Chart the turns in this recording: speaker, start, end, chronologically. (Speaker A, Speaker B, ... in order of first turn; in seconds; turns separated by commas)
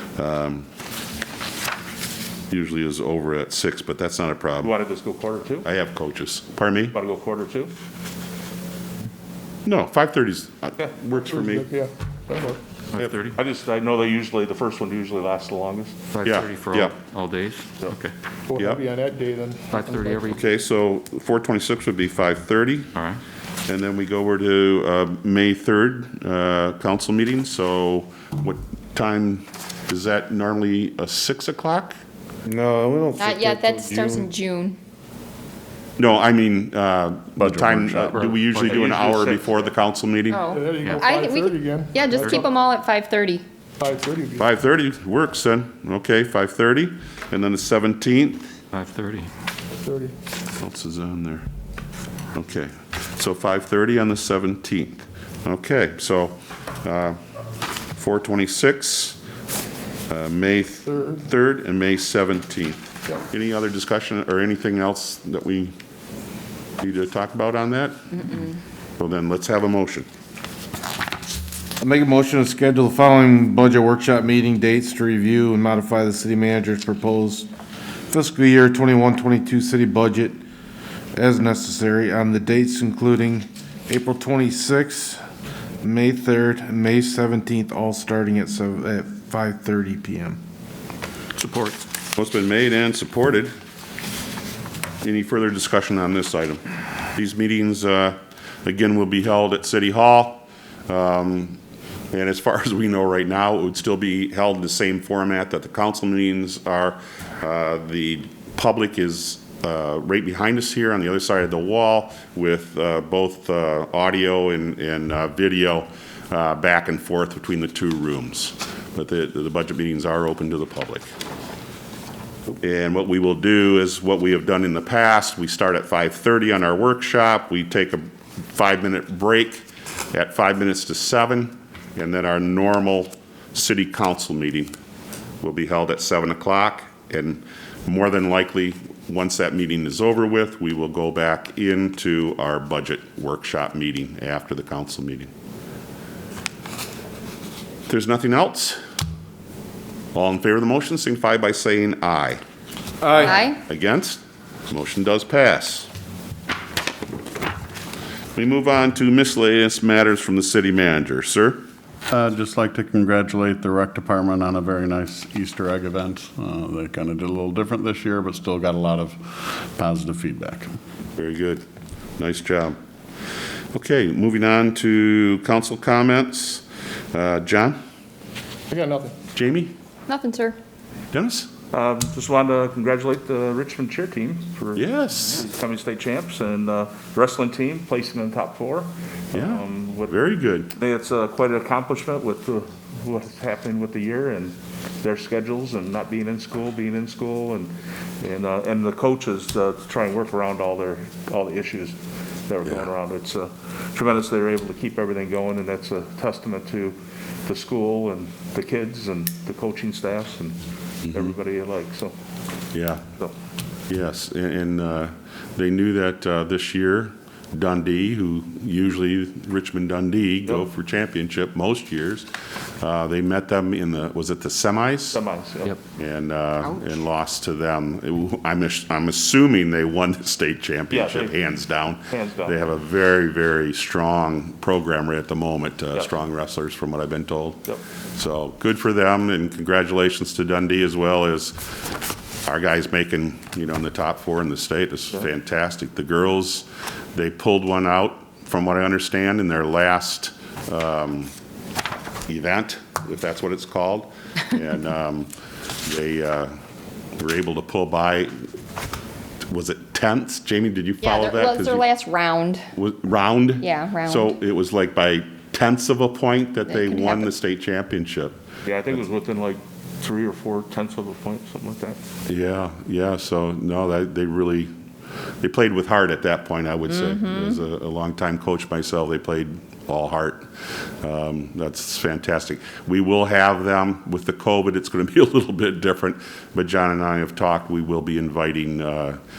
Speaker A: 0.1-0.6, Speaker A: 2.5-4.7, Speaker B: 4.6-5.7, Speaker A: 5.6-7.0, Speaker B: 6.9-7.7, Speaker A: 9.6-11.7, Speaker C: 11.1-12.6, Speaker D: 12.9-13.4, Speaker B: 13.3-16.0, Speaker A: 16.2-16.9, Speaker D: 16.3-18.1, Speaker C: 18.5-20.3, Speaker A: 18.6-18.8, Speaker D: 19.7-20.4, Speaker A: 20.3-22.9, Speaker D: 22.9-23.2, Speaker A: 23.7-32.0, Speaker E: 32.5-34.3, Speaker F: 33.2-34.8, Speaker A: 36.0-40.5, Speaker G: 37.6-38.4, Speaker B: 38.6-39.6, Speaker F: 40.3-43.4, Speaker C: 40.5-42.4, Speaker C: 43.8-44.5, Speaker A: 44.4-48.4, Speaker D: 48.7-49.3, Speaker C: 49.8-50.1, Speaker A: 50.6-51.5, Speaker A: 52.3-57.2, Speaker A: 57.9-59.2, Speaker A: 60.1-65.7, Speaker A: 66.8-68.5, Speaker A: 69.0-70.1, Speaker E: 71.8-77.5, Speaker E: 78.1-80.4, Speaker E: 81.1-85.2, Speaker E: 85.8-90.4, Speaker D: 91.4-91.7, Speaker A: 92.1-93.5, Speaker A: 95.0-96.6, Speaker A: 97.1-101.6, Speaker A: 102.1-121.0, Speaker A: 122.6-134.7, Speaker A: 135.4-145.3, Speaker A: 147.9-148.8, Speaker A: 150.1-152.4, Speaker A: 153.2-155.9, Speaker F: 153.2-153.6, Speaker A: 158.3-161.6, Speaker G: 162.1-170.7, Speaker A: 171.2-171.6, Speaker A: 172.2-172.8, Speaker A: 173.7-177.8, Speaker C: 178.7-179.2, Speaker A: 179.3-179.7, Speaker F: 180.1-180.6, Speaker A: 181.1-181.5, Speaker B: 181.7-190.2, Speaker A: 184.7-185.4, Speaker A: 189.3-190.7, Speaker B: 190.7-201.9, Speaker B: 202.5-206.9, Speaker B: 207.4-210.6, Speaker B: 211.1-212.1, Speaker A: 212.7-213.0, Speaker A: 213.9-222.3, Speaker A: 222.8-225.2, Speaker B: 225.1-225.8, Speaker A: 225.9-237.6, Speaker B: 230.9-231.4, Speaker B: 232.1-232.6, Speaker A: 238.2-241.6, Speaker A: 242.4-251.3, Speaker A: 252.3-255.3, Speaker A: 255.8-256.5, Speaker A: 257.2-258.3, Speaker A: 259.5-261.8, Speaker F: 261.0-262.6, Speaker A: 262.7-268.4, Speaker F: 263.6-264.3, Speaker F: 266.7-267.3, Speaker B: 268.6-272.0, Speaker A: 272.3-274.7, Speaker A: 275.4-280.5, Speaker F: 277.1-277.4, Speaker A: 281.0-289.2